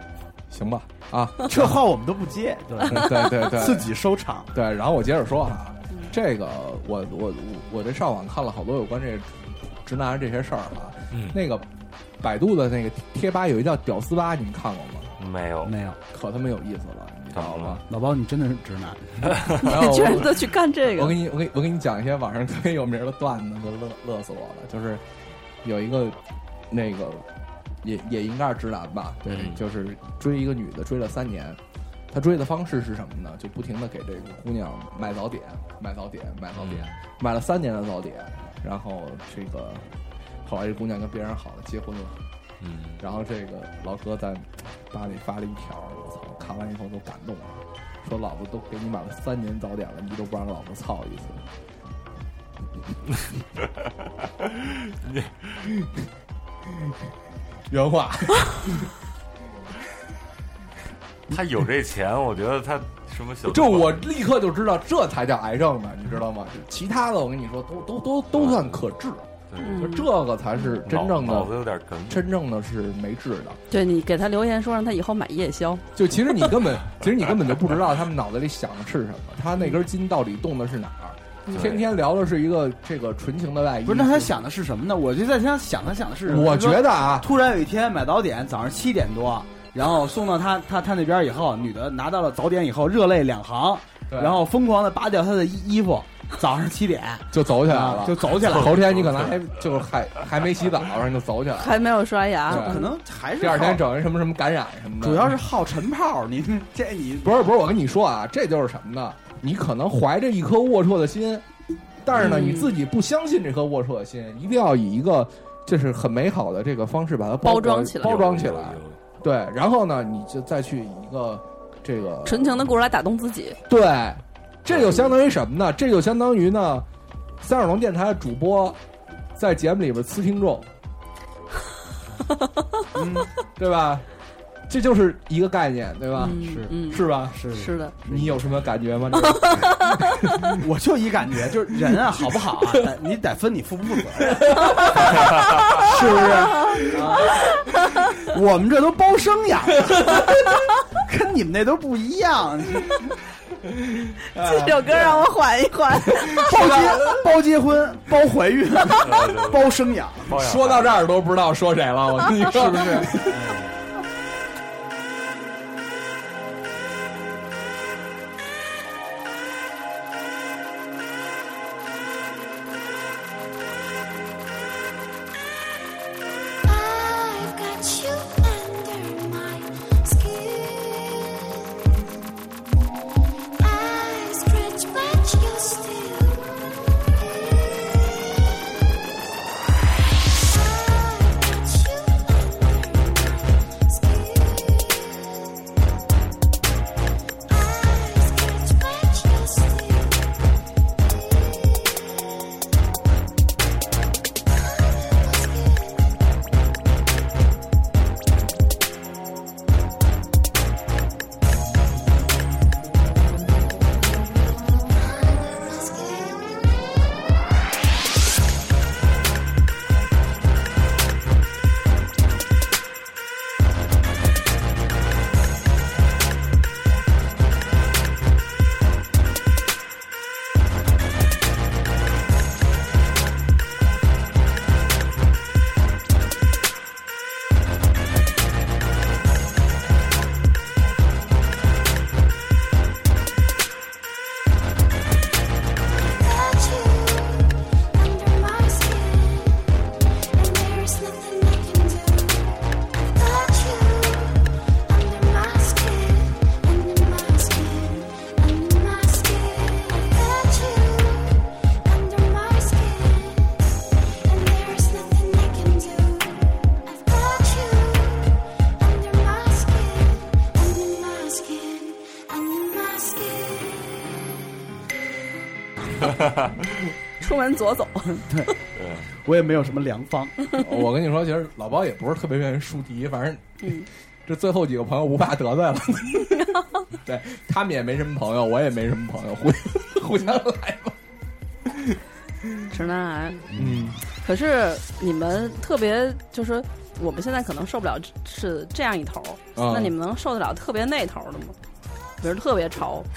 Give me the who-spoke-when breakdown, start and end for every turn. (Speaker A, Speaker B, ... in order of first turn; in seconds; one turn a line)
Speaker A: 0.5-1.8
Speaker B: 1.4-4.5
Speaker A: 2.8-3.9
Speaker A: 4.5-11.7
Speaker C: 11.1-11.4
Speaker A: 12.2-15.1
Speaker C: 15.2-15.8
Speaker B: 15.6-16.0
Speaker A: 16.1-17.8
Speaker C: 17.3-17.8
Speaker B: 17.9-19.5
Speaker A: 19.5-25.0
Speaker D: 19.6-21.2
Speaker A: 25.6-26.2
Speaker A: 26.7-27.2
Speaker A: 27.8-31.6
Speaker C: 29.2-29.6
Speaker A: 32.1-42.2
Speaker C: 36.5-37.0
Speaker C: 42.6-43.0
Speaker A: 43.0-51.5
Speaker C: 54.4-55.6
Speaker A: 56.7-56.9
Speaker A: 57.7-58.9
Speaker C: 61.3-64.1
Speaker A: 63.5-73.6
Speaker C: 68.4-68.8
Speaker C: 69.5-69.8
Speaker D: 69.6-70.1
Speaker C: 70.8-72.3
Speaker D: 73.7-76.5
Speaker A: 75.9-84.4
Speaker C: 81.5-81.9
Speaker B: 83.8-98.8
Speaker A: 86.2-87.3
Speaker A: 94.1-94.4
Speaker A: 97.3-101.8
Speaker C: 98.5-99.4
Speaker D: 101.6-102.9
Speaker A: 102.5-105.4
Speaker B: 102.5-103.9
Speaker B: 105.0-107.5
Speaker A: 107.2-111.4
Speaker A: 112.0-122.7
Speaker D: 112.1-112.7
Speaker D: 117.4-118.2
Speaker C: 118.0-119.0
Speaker D: 122.2-123.6
Speaker A: 123.7-126.8
Speaker C: 124.7-125.0
Speaker A: 127.4-128.8
Speaker A: 129.3-130.7
Speaker B: 132.9-133.3
Speaker A: 133.6-134.1
Speaker A: 134.7-137.4
Speaker D: 136.2-137.9
Speaker B: 136.3-136.8
Speaker B: 137.3-138.4
Speaker A: 138.0-140.6
Speaker D: 139.2-140.5
Speaker B: 140.5-153.1
Speaker A: 141.8-142.9
Speaker A: 144.2-147.2
Speaker D: 144.7-148.1
Speaker A: 149.8-150.3
Speaker A: 153.6-155.1
Speaker D: 154.3-157.1
Speaker A: 156.1-157.2
Speaker B: 156.3-160.3
Speaker C: 159.0-161.1
Speaker A: 160.3-163.5
Speaker B: 162.4-163.8
Speaker E: 176.6-181.8
Speaker E: 183.6-189.0
Speaker E: 190.3-195.5
Speaker E: 197.5-200.3
Speaker E: 201.0-202.4
Speaker E: 204.5-206.2
Speaker E: 214.7-217.5
Speaker E: 245.9-249.8
Speaker E: 250.3-274.2
Speaker C: 276.1-276.5
Speaker D: 277.2-278.4
Speaker B: 278.3-278.6
Speaker C: 278.7-279.1
Speaker B: 279.1-280.4
Speaker A: 280.5-283.7
Speaker D: 283.6-283.9
Speaker A: 284.2-290.9
Speaker A: 291.6-292.0
Speaker D: 292.7-293.4
Speaker B: 293.5-294.0
Speaker A: 293.5-294.0
Speaker D: 294.2-301.6
Speaker A: 299.5-299.9
Speaker D: 302.2-303.1